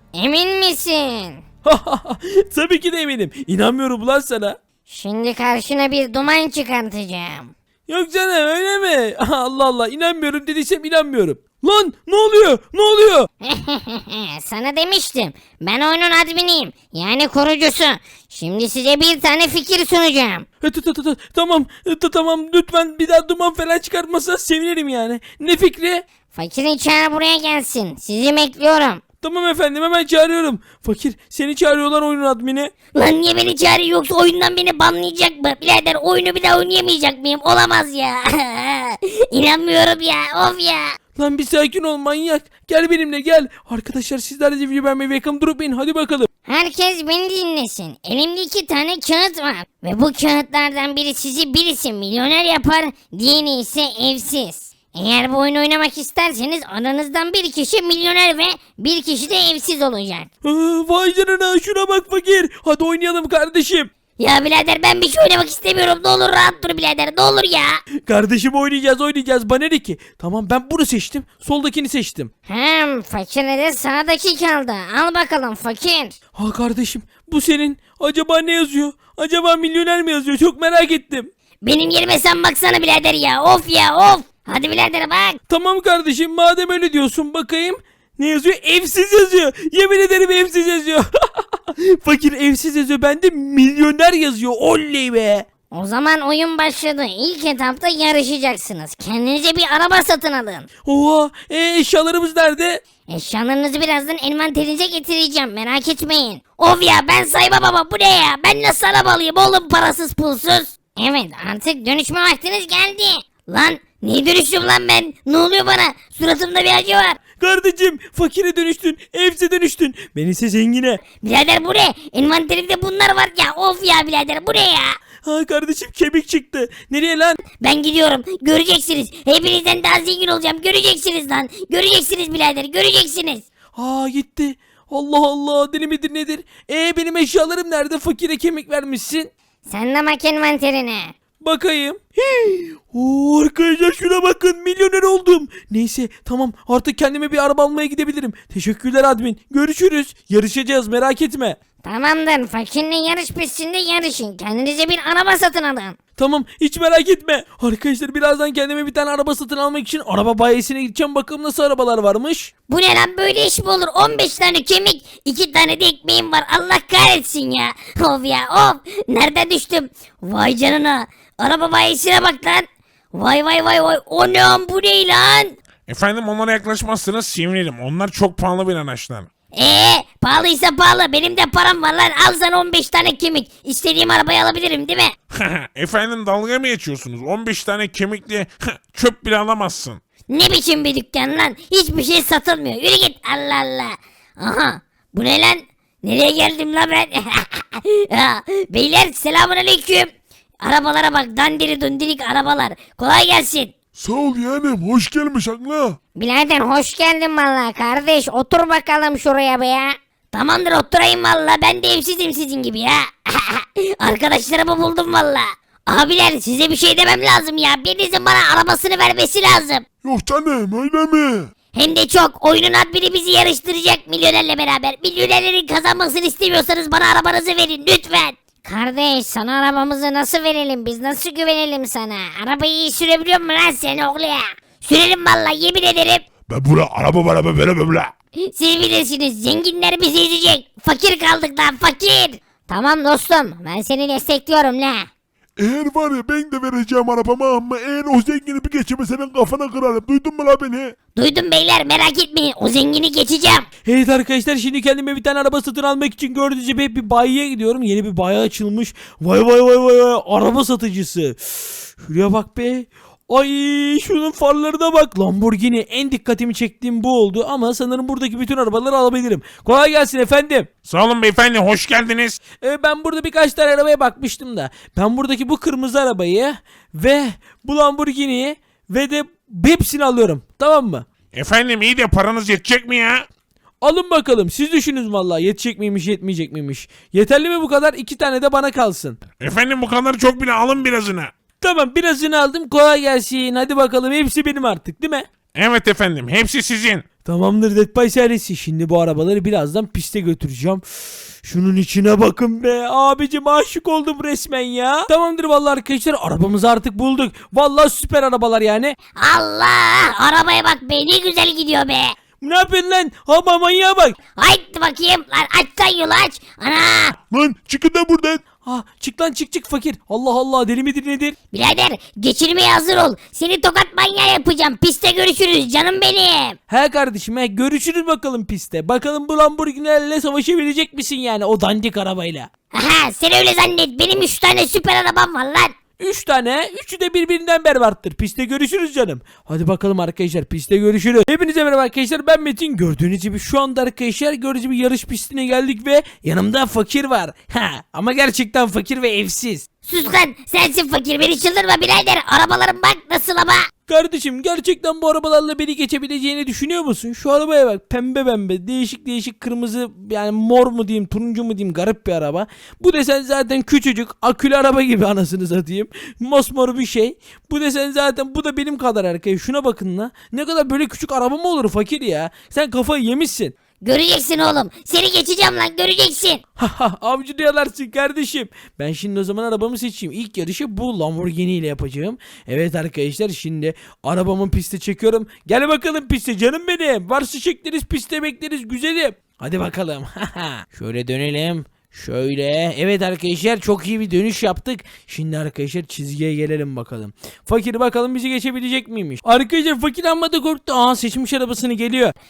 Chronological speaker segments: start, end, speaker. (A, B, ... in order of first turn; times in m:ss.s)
0:00.1-0:01.4 A
0:01.6-0:04.6 B
0:04.9-0:07.5 A
0:07.9-0:13.3 B
0:13.4-0:20.4 A
0:20.6-0:26.0 B
0:26.3-0:29.0 A
0:29.2-0:32.7 B
0:32.9-0:41.0 A
0:41.2-0:46.3 B
0:46.4-1:00.3 A
1:00.4-1:03.9 B
1:04.2-1:07.8 A
1:08.0-1:12.3 B
1:12.5-1:16.2 A
1:16.3-1:21.3 B
1:21.6-1:25.4 A
1:25.5-1:35.4 B
1:35.7-1:40.7 A
1:40.8-1:42.8 B
1:43.1-1:57.2 A
1:57.4-2:01.0 B
2:01.2-2:05.0 A
2:05.2-2:07.4 B
2:07.5-2:13.4 A
2:13.7-2:19.3 B
2:19.6-2:21.1 A
2:21.4-2:31.6 B
2:31.8-2:36.0 A
2:36.2-2:42.5 B
2:42.7-2:55.5 A
2:55.9-2:59.3 C
2:59.5-3:05.1 A
3:05.3-3:10.0 C
3:10.3-3:23.7 A
3:24.0-3:26.0 D
3:26.2-3:39.8 A
3:40.0-3:41.5 D
3:41.7-3:56.2 A
3:56.5-3:58.1 D
3:58.4-4:05.1 A
4:05.6-4:10.9 D
4:11.2-4:13.7 A
4:13.8-4:30.7 B
4:30.8-4:32.4 C
4:32.6-4:41.0 B
4:41.3-4:43.3 C
4:43.8-4:49.2 B
4:49.4-4:51.3 C
4:51.6-4:55.2 B
4:55.5-4:57.0 C
4:57.2-5:00.8 B
5:01.4-5:09.0 B
5:09.2-5:12.1 A
5:12.4-5:14.2 B
5:14.4-5:17.2 A
5:17.3-5:18.4 D
5:18.6-5:21.4 B
5:21.5-5:26.6 A
5:26.7-5:32.5 B
5:32.7-5:35.7 A
5:36.0-5:49.6 B
5:49.8-5:53.7 A
5:53.9-6:13.5 B
6:13.8-6:16.4 A
6:16.6-6:42.1 B